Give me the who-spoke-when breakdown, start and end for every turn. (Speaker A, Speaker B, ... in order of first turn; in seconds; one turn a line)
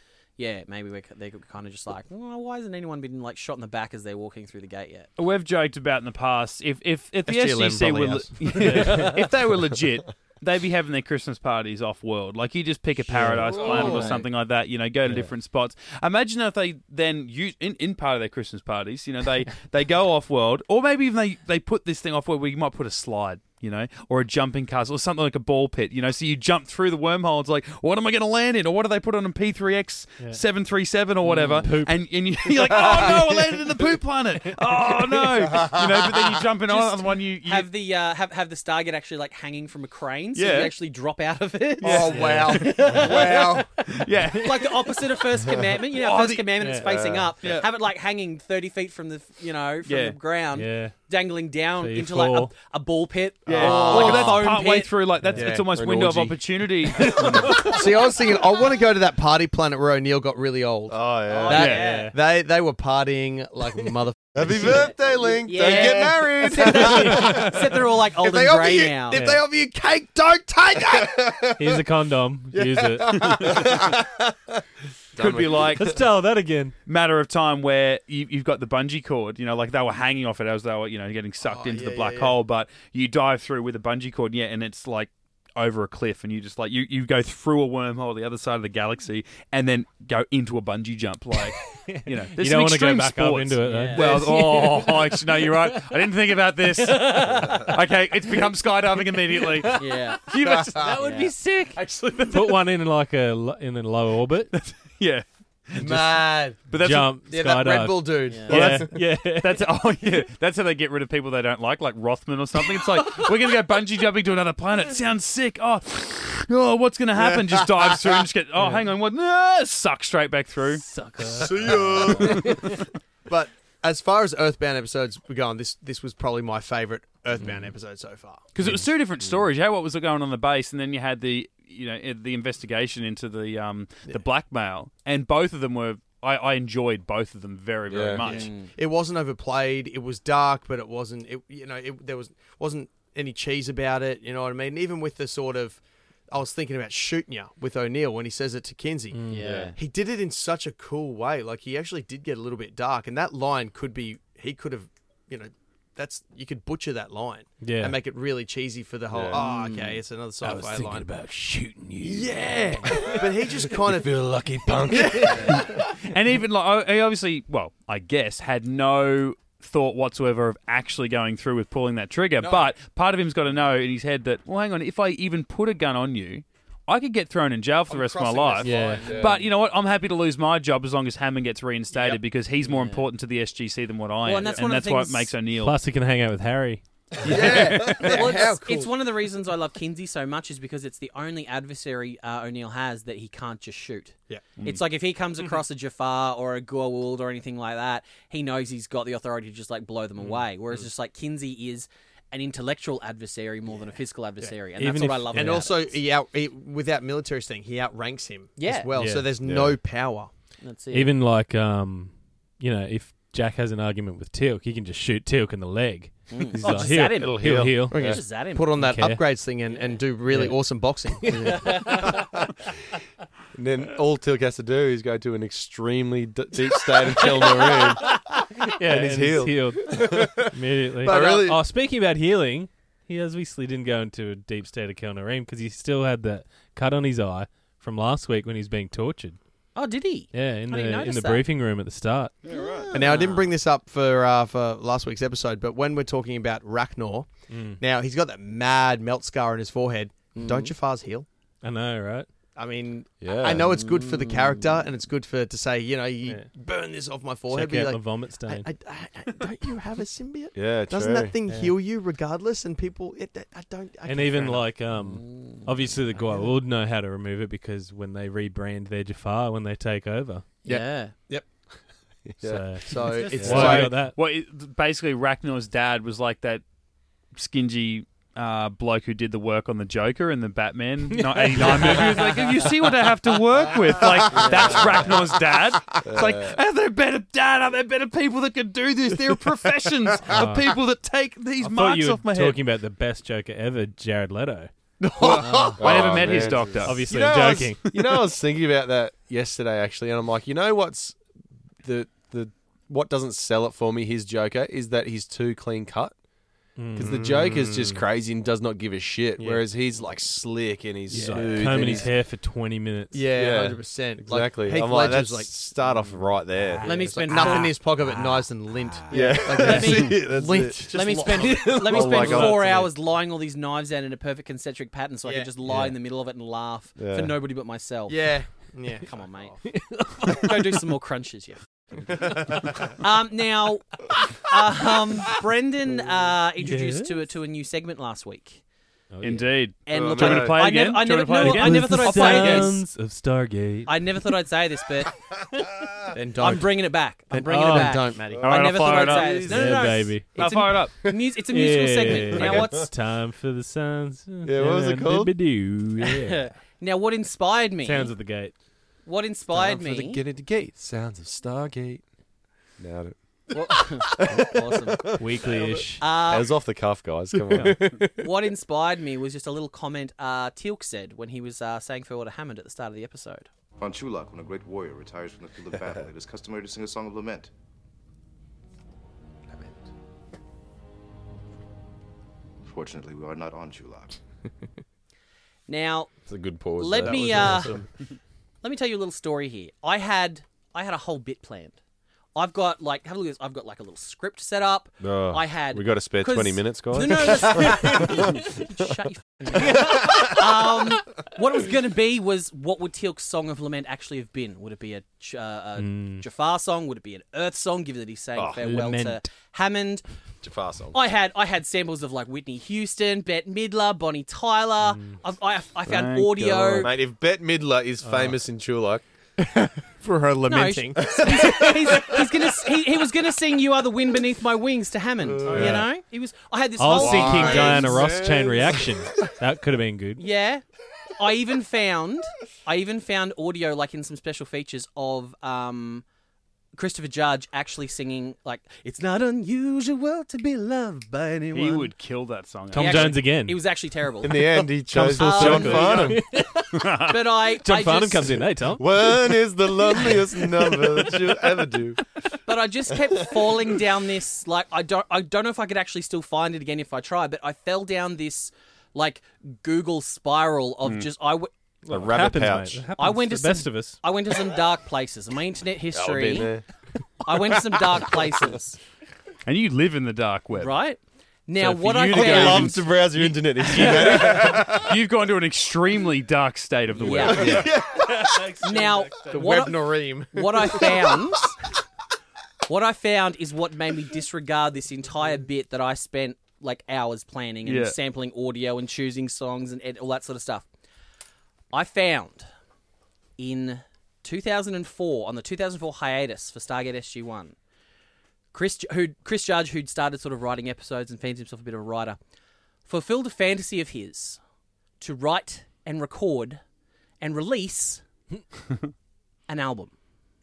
Speaker A: 0.4-5.1
Speaker B: 5.2-37.7
Speaker C: 7.3-9.1
Speaker D: 8.7-9.2
Speaker D: 13.1-14.0
Speaker C: 13.5-14.2
Speaker A: 13.6-14.2
Speaker D: 15.1-15.3
Speaker D: 31.3-32.1
Speaker A: 31.3-31.6
Speaker C: 32.7-33.2
Speaker A: 36.7-54.9
Speaker B: 40.4-40.7
Speaker C: 41.8-43.7
Speaker D: 41.9-43.0
Speaker B: 43.9-44.7
Speaker B: 46.0-46.4
Speaker D: 46.6-46.9
Speaker E: 46.8-47.3
Speaker B: 49.9-50.2
Speaker D: 50.5-51.0
Speaker D: 51.8-52.5
Speaker B: 53.5-57.7
Speaker E: 53.5-54.3
Speaker C: 53.6-54.5
Speaker D: 55.2-55.6
Speaker C: 55.4-55.7
Speaker E: 55.7-56.4
Speaker D: 57.1-57.8
Speaker C: 57.1-71.8
Speaker E: 60.9-61.7
Speaker A: 61.3-62.1
Speaker B: 61.5-61.8
Speaker D: 61.6-62.1
Speaker E: 64.3-67.4
Speaker A: 64.7-69.2
Speaker D: 69.2-69.4
Speaker D: 71.6-73.5
Speaker C: 72.5-74.2
Speaker B: 73.2-73.8
Speaker E: 73.7-73.9
Speaker E: 75.2-76.0
Speaker B: 75.2-76.0
Speaker C: 75.2-75.6
Speaker D: 75.8-76.7
Speaker B: 76.9-101.8
Speaker C: 81.4-82.4
Speaker D: 91.7-95.9
Speaker A: 93.6-94.1
Speaker D: 96.8-97.6
Speaker A: 99.8-100.2
Speaker C: 100.4-101.0
Speaker A: 101.0-101.3
Speaker D: 101.5-104.5
Speaker C: 101.8-102.6
Speaker B: 104.5-107.2
Speaker C: 105.8-106.8
Speaker D: 106.8-109.7
Speaker C: 107.3-108.9
Speaker A: 108.3-108.6
Speaker B: 108.5-120.8
Speaker C: 117.2-118.1
Speaker D: 118.6-118.8
Speaker D: 120.8-122.8
Speaker C: 121.4-122.8
Speaker E: 121.6-122.3
Speaker C: 123.3-128.4
Speaker B: 128.6-138.5
Speaker E: 137.9-138.2
Speaker A: 138.2-138.7
Speaker C: 138.2-149.2
Speaker D: 149.1-149.7
Speaker A: 149.3-149.8
Speaker E: 149.3-149.7
Speaker C: 149.8-161.1
Speaker D: 157.6-158.0
Speaker E: 159.1-159.4
Speaker A: 159.3-160.0
Speaker D: 160.4-163.3
Speaker C: 162.0-164.1
Speaker E: 163.8-165.5
Speaker C: 165.2-165.7
Speaker B: 165.3-185.8
Speaker C: 172.4-172.7
Speaker C: 177.9-179.4
Speaker E: 178.7-179.4
Speaker D: 178.7-179.2
Speaker C: 181.9-182.2
Speaker A: 182.7-183.1
Speaker A: 184.2-185.3
Speaker D: 185.6-186.8
Speaker C: 187.2-188.9
Speaker B: 187.2-188.1
Speaker E: 187.4-188.1
Speaker A: 187.9-206.0
Speaker C: 200.2-200.8
Speaker C: 203.7-204.6
Speaker D: 204.8-205.7
Speaker C: 205.3-210.3
Speaker A: 208.6-208.9
Speaker D: 208.9-209.4
Speaker E: 209.4-209.8
Speaker A: 210.6-211.1
Speaker D: 210.9-219.3
Speaker A: 216.3-218.7
Speaker E: 216.7-218.2
Speaker C: 217.9-222.1
Speaker D: 220.3-222.2
Speaker E: 223.5-228.2
Speaker D: 228.4-239.4
Speaker E: 228.8-230.4
Speaker C: 229.9-230.5
Speaker C: 231.0-231.6
Speaker E: 231.0-231.6
Speaker A: 239.8-241.4
Speaker D: 240.3-242.3
Speaker B: 242.5-242.9
Speaker A: 242.5-243.5
Speaker C: 242.9-251.3
Speaker D: 247.5-247.8
Speaker A: 250.3-250.7
Speaker D: 251.6-252.3
Speaker C: 252.6-264.7
Speaker E: 253.2-253.7
Speaker A: 253.7-254.7
Speaker D: 257.5-258.7
Speaker E: 260.5-261.3
Speaker D: 261.5-261.8
Speaker D: 264.1-270.5
Speaker A: 265.0-265.7
Speaker C: 270.6-271.5
Speaker A: 270.7-271.1
Speaker E: 272.4-272.8
Speaker D: 272.4-274.2
Speaker C: 272.9-274.0
Speaker E: 273.4-273.9
Speaker B: 273.4-276.6
Speaker B: 277.4-292.6
Speaker D: 281.1-283.3
Speaker A: 284.4-285.1
Speaker E: 286.1-286.6
Speaker D: 290.3-290.7
Speaker D: 291.6-294.7
Speaker C: 295.0-296.2
Speaker B: 295.3-297.1
Speaker A: 295.4-295.8
Speaker E: 295.8-301.2
Speaker D: 296.8-297.9
Speaker E: 301.8-306.1
Speaker D: 306.8-308.0
Speaker E: 306.9-312.1
Speaker C: 307.0-307.7
Speaker D: 311.1-313.3
Speaker C: 311.1-312.0
Speaker C: 313.1-315.5
Speaker E: 313.3-317.1
Speaker A: 316.8-317.8
Speaker D: 316.8-318.2
Speaker C: 316.8-322.6
Speaker A: 319.1-320.3
Speaker E: 319.1-322.8
Speaker A: 320.9-331.6
Speaker E: 327.0-327.3
Speaker C: 328.1-329.5
Speaker D: 329.6-330.8
Speaker A: 332.9-338.6
Speaker D: 336.6-337.2
Speaker D: 339.1-339.5
Speaker B: 339.2-342.8
Speaker A: 339.9-342.8
Speaker E: 339.9-340.6
Speaker D: 341.3-344.3
Speaker A: 343.9-345.2
Speaker C: 346.1-349.0
Speaker A: 346.4-352.9
Speaker D: 347.5-348.0
Speaker E: 348.3-349.4
Speaker B: 348.4-349.5
Speaker D: 349.4-350.4
Speaker B: 350.4-351.0
Speaker D: 351.5-356.5
Speaker E: 352.4-352.8
Speaker E: 354.4-355.4
Speaker A: 356.1-358.1
Speaker D: 357.8-358.6
Speaker A: 359.1-360.2
Speaker E: 359.5-362.0
Speaker E: 362.8-365.6
Speaker A: 363.5-365.1
Speaker D: 365.2-366.1
Speaker A: 366.0-366.5
Speaker E: 366.1-368.0
Speaker D: 367.5-368.1
Speaker A: 368.2-373.5
Speaker F: 373.8-377.5
Speaker F: 382.9-384.1
Speaker A: 385.7-386.1
Speaker E: 386.3-387.8
Speaker A: 386.8-387.8
Speaker C: 387.0-387.9
Speaker A: 388.6-391.8
Speaker A: 392.4-410.0
Speaker E: 395.0-398.4
Speaker D: 405.8-406.2
Speaker E: 408.4-408.6
Speaker D: 408.6-409.2
Speaker E: 410.4-411.0
Speaker A: 410.9-416.9
Speaker D: 414.9-415.2
Speaker B: 415.9-416.9
Speaker E: 416.8-419.0
Speaker D: 418.0-418.4
Speaker C: 419.4-422.2
Speaker A: 420.5-427.9
Speaker E: 425.2-425.8
Speaker D: 425.5-425.9
Speaker D: 426.8-430.2
Speaker E: 427.1-428.6
Speaker C: 427.4-428.7
Speaker A: 430.2-430.6
Speaker A: 431.2-436.1
Speaker A: 436.8-441.9
Speaker B: 441.5-443.2
Speaker D: 442.7-443.6
Speaker A: 442.7-444.5
Speaker E: 444.2-446.2
Speaker D: 444.9-446.8
Speaker A: 445.1-446.1
Speaker B: 446.7-447.1
Speaker A: 447.1-448.4
Speaker D: 447.6-448.9
Speaker E: 448.8-452.0
Speaker A: 452.5-461.5
Speaker D: 461.9-464.0
Speaker E: 461.9-462.8
Speaker A: 463.0-466.6
Speaker E: 465.9-466.6
Speaker A: 467.2-468.8
Speaker B: 469.4-470.7
Speaker A: 470.6-473.1
Speaker B: 471.6-472.8
Speaker E: 472.1-474.9
Speaker A: 473.6-474.4
Speaker B: 473.8-477.7
Speaker A: 477.0-477.7
Speaker E: 477.1-478.4
Speaker D: 478.2-479.3
Speaker A: 478.6-481.6
Speaker C: 479.3-481.1
Speaker A: 482.7-490.6
Speaker B: 487.6-487.9
Speaker A: 491.7-492.5
Speaker A: 493.4-497.6
Speaker A: 498.5-502.2
Speaker A: 502.9-504.4
Speaker A: 505.0-506.6
Speaker A: 507.2-508.0
Speaker A: 509.5-509.9